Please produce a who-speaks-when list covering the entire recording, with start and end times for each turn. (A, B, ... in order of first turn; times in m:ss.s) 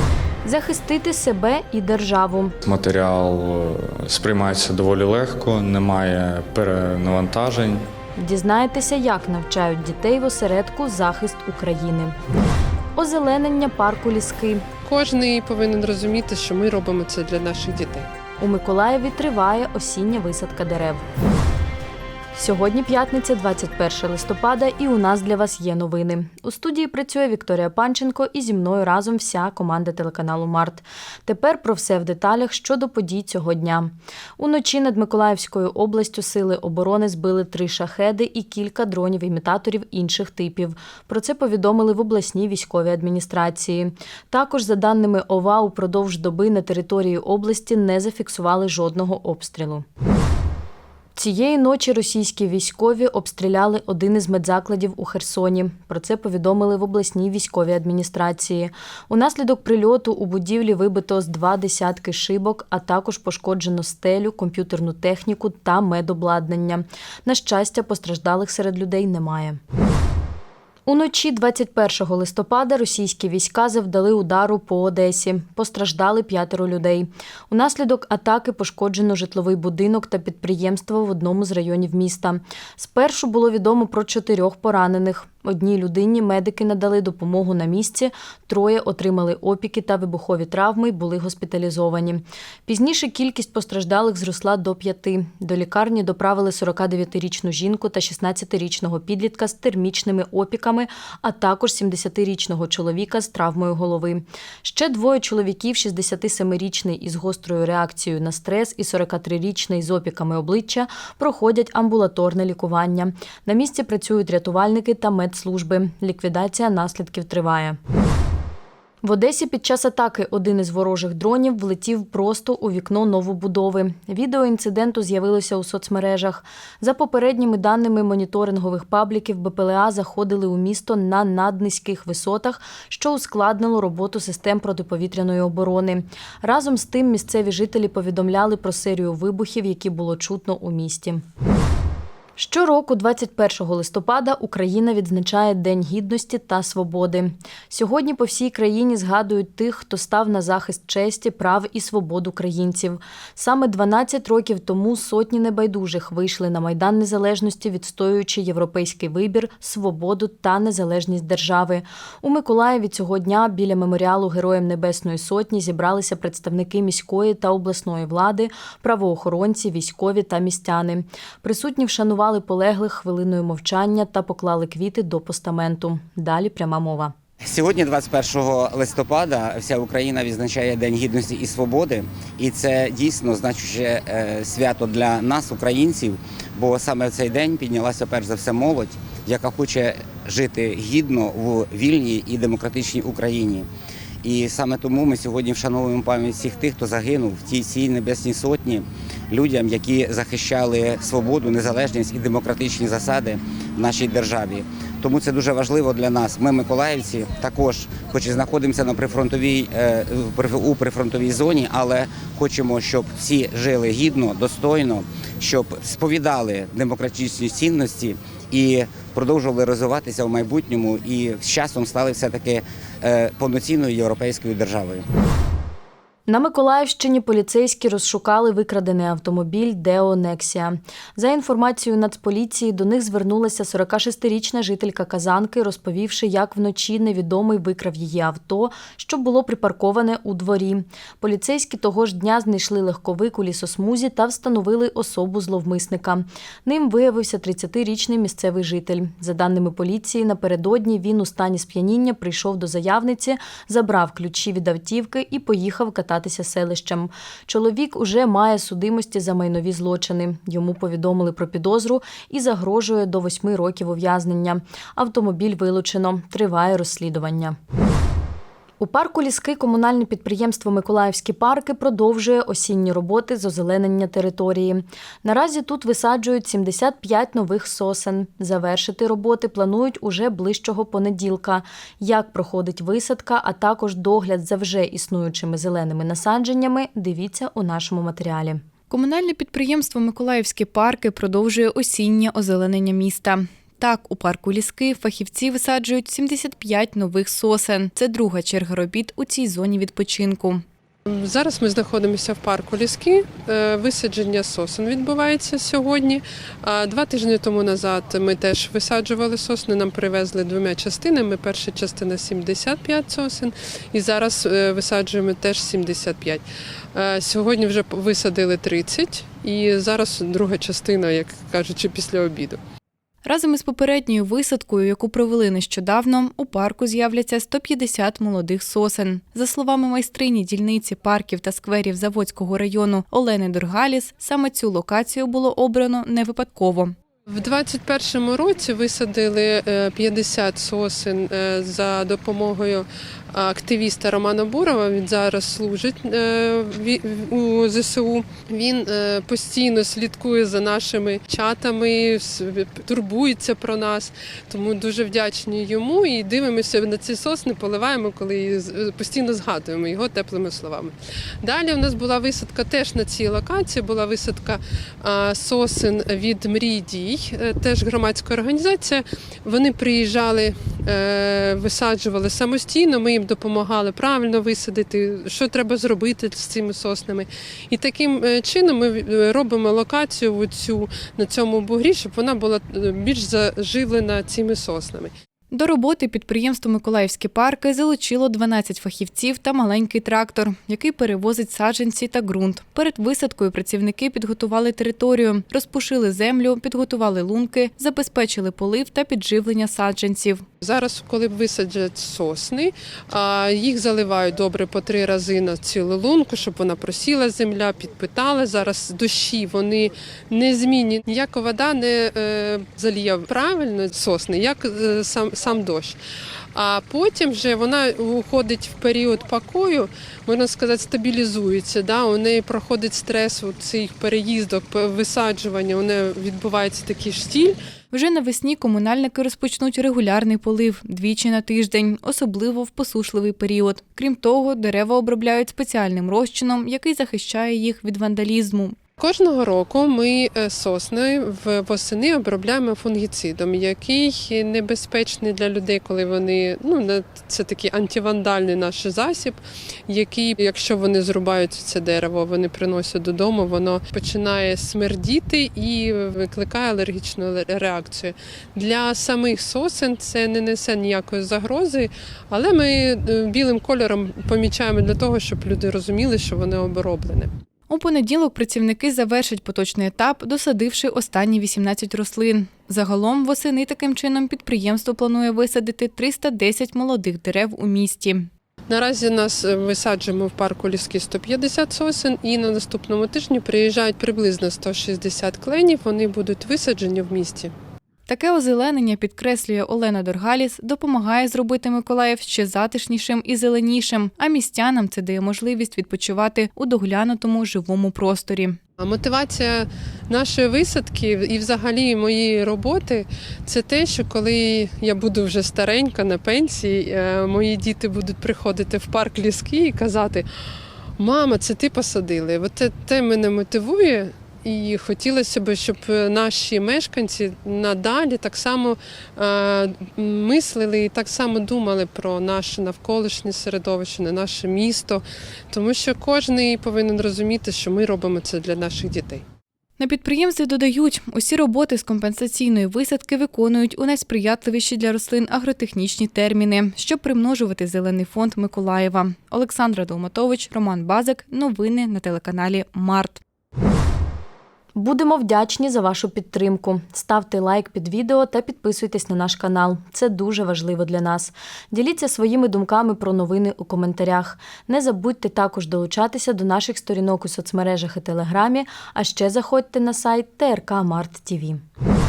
0:00.4-0:02.6 A
0:02.6-0:07.8 B
0:08.2-0:12.2 A
0:13.0-0:14.6 A
0:14.9-0:18.1 C
0:18.4-0:21.0 A
0:22.3-0:49.8 A
0:51.2-1:09.6 A
1:10.9-1:57.8 A
1:59.0-2:21.2 A
2:22.4-2:57.1 A
2:57.4-3:13.7 D
3:14.2-3:45.0 D
3:46.3-4:27.6 A
4:28.8-4:48.6 A
4:48.9-5:00.6 E
5:01.1-5:16.4 C
5:16.9-5:22.6 C
5:23.2-5:36.9 E
5:37.3-6:25.1 C
6:25.5-6:40.4 E
6:40.6-6:56.0 C
6:56.6-7:07.6 C
7:07.9-7:18.8 E
7:19.0-7:47.3 C
7:47.7-7:58.3 E
7:58.7-8:07.5 C
8:08.1-8:18.6 E
8:18.8-8:30.3 C
8:31.0-8:49.2 C
8:49.8-9:03.2 E
9:04.8-9:21.6 A